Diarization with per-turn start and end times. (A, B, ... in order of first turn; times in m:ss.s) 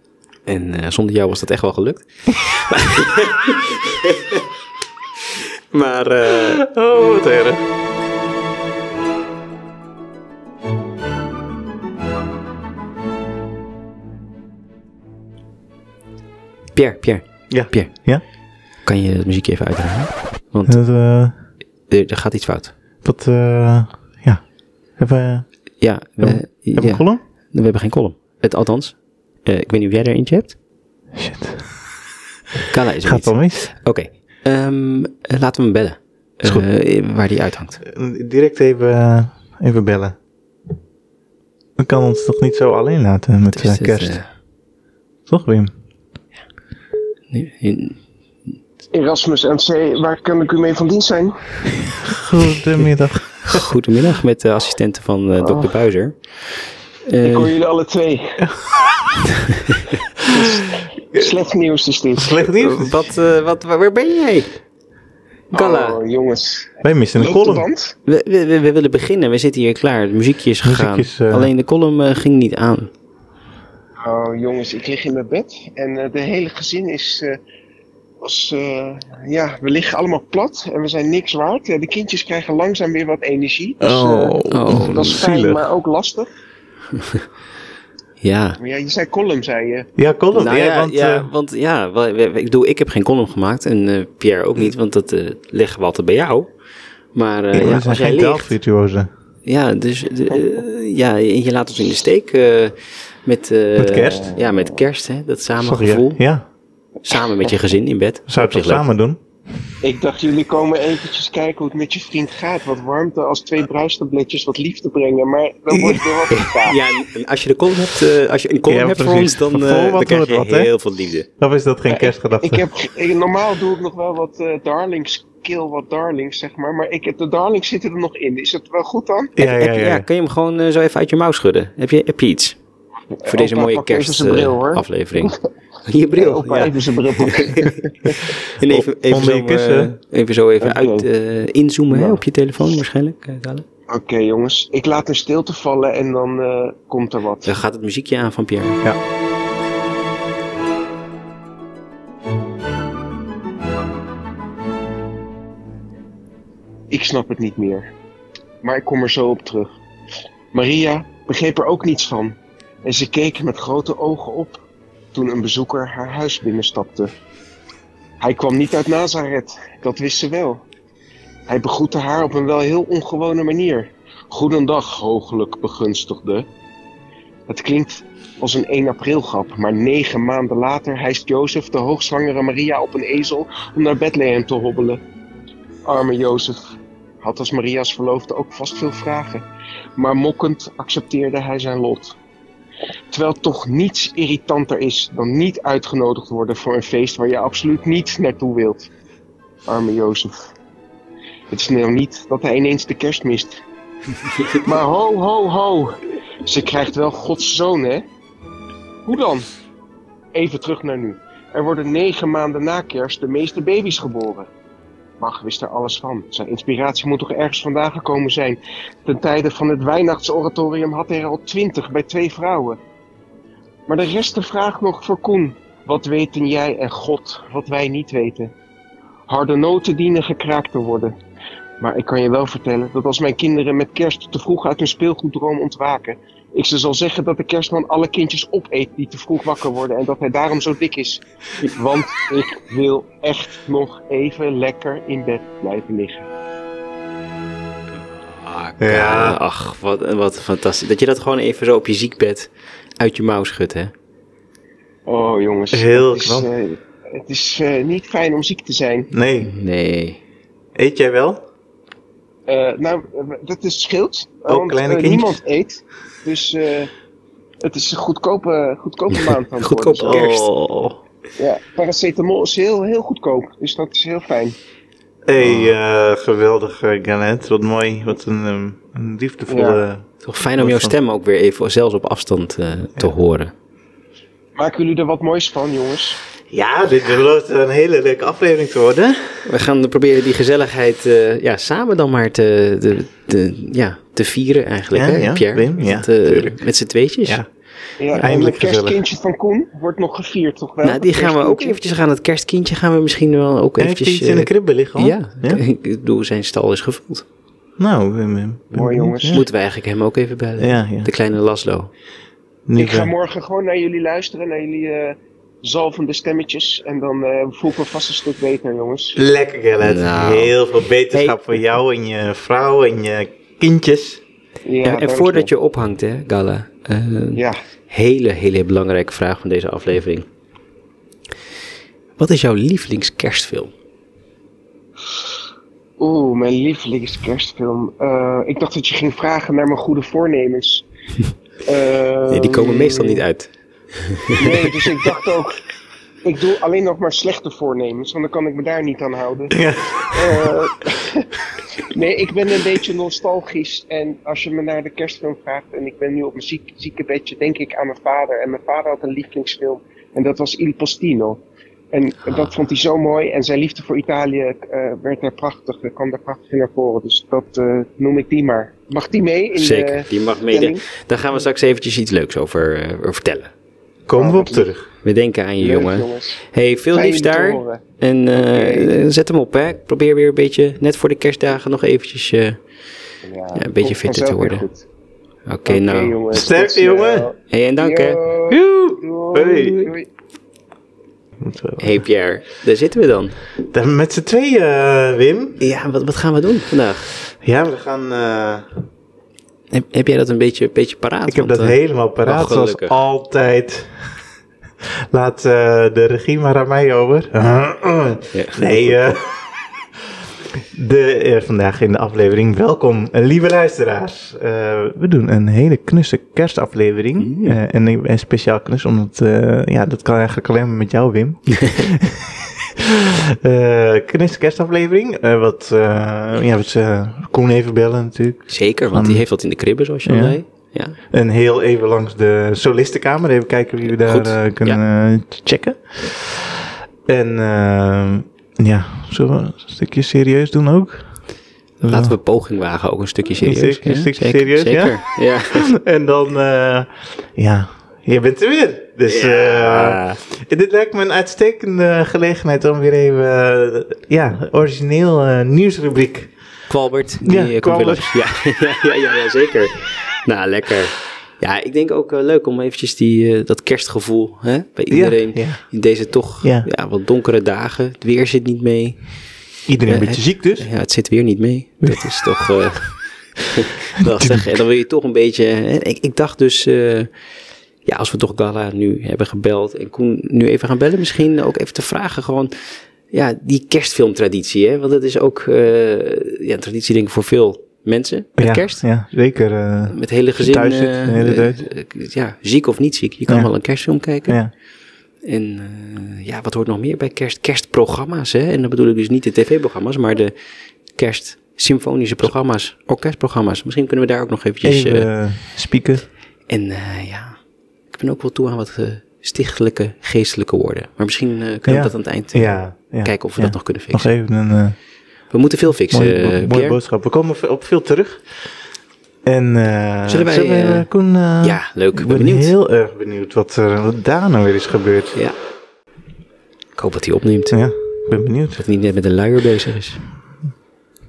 0:00.5-0:04.4 A
0:05.7-0:06.6 A
0:06.3-0:07.6 B
0:16.8-0:17.9 A
0:17.5-0:18.2 B
0:18.8-0:20.8 A
0:20.7-0:21.3 B
0:21.9-0:22.7 A
0:23.0-0:24.4 B
0:25.0-0:25.5 B
0:25.8-0:30.6 A
0:26.2-0:27.2 B
0:31.2-0:31.6 B
0:32.7-0:37.8 A
0:33.0-0:33.7 B
0:37.8-0:40.2 B
0:41.8-0:44.2 B
0:43.5-0:44.3 A
0:45.3-0:45.7 B
0:47.3-0:48.0 A
0:48.9-0:51.4 C
0:52.1-0:53.6 B
0:53.4-0:56.2 A
0:55.4-0:55.7 C
0:57.1-0:57.5 A
0:57.2-0:58.4 C
1:00.3-1:00.6 C
1:01.2-1:02.4 C
1:02.2-1:03.1 B
1:02.6-1:04.5 A
1:05.5-1:06.0 A
1:05.5-1:08.0 C
1:06.8-1:07.7 B
1:08.1-1:12.9 A
1:10.6-1:11.5 B
1:14.0-1:17.4 C
1:18.2-1:26.3 C
1:23.8-1:25.7 B
1:24.5-1:25.0 A
1:26.9-1:27.2 A
1:28.2-1:28.6 A
1:28.6-1:29.9 C
1:30.0-1:31.3 B
1:30.3-1:36.5 A
1:37.1-1:38.5 A
1:37.5-1:39.1 B
1:39.5-1:46.2 A
1:43.8-1:44.3 B
1:45.6-1:46.4 B
1:47.0-1:48.9 A
1:48.3-1:49.2 B
1:49.8-1:56.8 C
1:55.7-1:56.1 B
1:56.3-2:01.3 A
1:58.7-2:00.7 B
2:01.4-2:02.6 B
2:01.9-2:09.3 C
2:09.4-2:10.1 B
2:09.4-2:12.6 A
2:13.2-2:15.4 C
2:13.3-2:15.3 A
2:15.9-2:23.6 A
2:16.2-2:18.2 C
2:18.6-2:19.9 B
2:20.6-2:21.1 C
2:21.9-2:22.2 C
2:23.9-2:27.6 C
2:27.5-2:28.8 A
2:36.9-2:37.9 C
2:38.6-2:39.7 C
2:40.5-2:44.6 C
2:45.1-2:47.1 C
2:48.2-2:50.6 C
2:51.5-2:56.5 C
2:57.5-3:05.0 C
3:05.8-3:09.4 C
3:10.0-3:12.2 C
3:13.1-3:18.9 C
3:19.7-3:20.5 C
3:21.5-3:23.6 C
3:24.5-3:28.0 C
3:29.1-3:29.5 C
3:30.3-3:34.5 C
3:35.2-3:42.8 C
3:43.9-3:48.5 C
3:49.3-3:51.2 C
3:51.8-4:06.3 C
4:08.2-4:13.9 A
4:08.8-4:09.4 B
4:15.1-4:19.1 C
4:15.7-4:16.5 B
4:19.1-4:19.5 B
4:19.4-4:20.2 A
4:20.8-4:21.4 B
4:22.5-4:26.9 C
4:24.5-4:25.4 B
4:27.6-4:30.3 C
4:29.1-4:30.9 A
4:30.0-4:30.9 B
4:31.4-4:34.6 C
4:35.3-4:41.0 B
4:35.4-4:35.7 A
4:39.5-4:39.8 C
4:40.2-4:43.5 A
4:44.6-4:46.2 C
4:46.5-4:49.4 B
4:49.5-4:57.4 A
4:54.9-4:56.6 B
4:58.0-5:01.8 C
4:58.2-4:59.0 B
5:00.8-5:07.2 A
5:03.8-5:05.6 B
5:07.8-5:09.4 B
5:08.7-5:09.4 C
5:09.3-5:11.9 A
5:10.6-5:11.1 B
5:12.7-5:13.1 B
5:12.8-5:19.2 C
5:19.2-5:24.2 B
5:19.8-5:20.6 A
5:21.1-5:21.6 A
5:24.7-5:25.5 C
5:24.8-5:30.3 A
5:27.4-5:27.6 C
5:32.2-5:33.7 A
5:36.0-5:40.8 C
5:41.7-5:43.2 C
5:42.3-5:44.7 A
5:44.4-5:45.6 C
5:46.2-5:49.6 C
5:49.5-5:50.4 B
5:50.1-5:51.3 C
5:51.8-6:01.4 C
6:01.9-6:10.8 C
6:02.2-6:02.6 A
6:09.6-6:13.5 A
6:14.1-6:14.9 B
6:14.2-6:14.7 C
6:15.0-6:22.6 A
6:15.6-6:16.4 C
6:16.9-6:19.0 C
6:23.2-6:24.8 C
6:23.6-6:24.7 A
6:25.5-6:26.2 A
6:25.7-6:30.1 C
6:26.3-6:27.3 B
6:27.5-6:28.2 A
6:28.5-6:30.0 B
6:31.4-6:32.0 B
6:31.8-6:33.4 A
6:33.7-6:35.6 B
6:35.6-6:37.1 A
6:37.3-6:38.7 B
6:39.7-6:43.0 A
6:41.3-6:43.9 B
6:45.1-6:49.4 B
6:48.3-6:48.9 A
6:50.7-7:09.2 B
6:57.2-6:57.6 A
7:08.5-7:11.0 A
7:10.0-7:10.4 B
7:11.1-7:16.6 B
7:13.9-7:14.8 A
7:17.1-7:21.1 B
7:21.8-7:25.7 A
7:21.8-7:22.2 B
7:23.4-7:36.3 B
7:29.1-7:30.2 A
7:36.7-7:49.1 A
7:37.2-7:38.1 B
7:44.9-7:45.6 B
7:46.4-7:46.7 B
7:49.7-7:50.7 B
7:49.9-7:57.1 A
7:51.8-7:52.2 B
7:54.2-7:54.5 B
7:57.8-8:02.5 A
8:03.1-8:08.8 A
8:08.4-8:11.6 B
8:09.9-8:14.4 A
8:14.3-8:14.5 B
8:15.2-8:20.3 A
8:21.0-8:25.1 A
8:24.6-8:26.0 B
8:26.5-8:27.4 A
8:27.9-8:34.1 A
8:31.7-8:34.8 B
8:35.3-8:36.8 A
8:35.9-8:38.2 B
8:39.2-8:45.2 B
8:40.1-8:40.9 A
8:41.4-8:42.5 A
8:46.8-8:47.6 A
8:47.5-8:48.6 B
8:48.6-8:50.0 A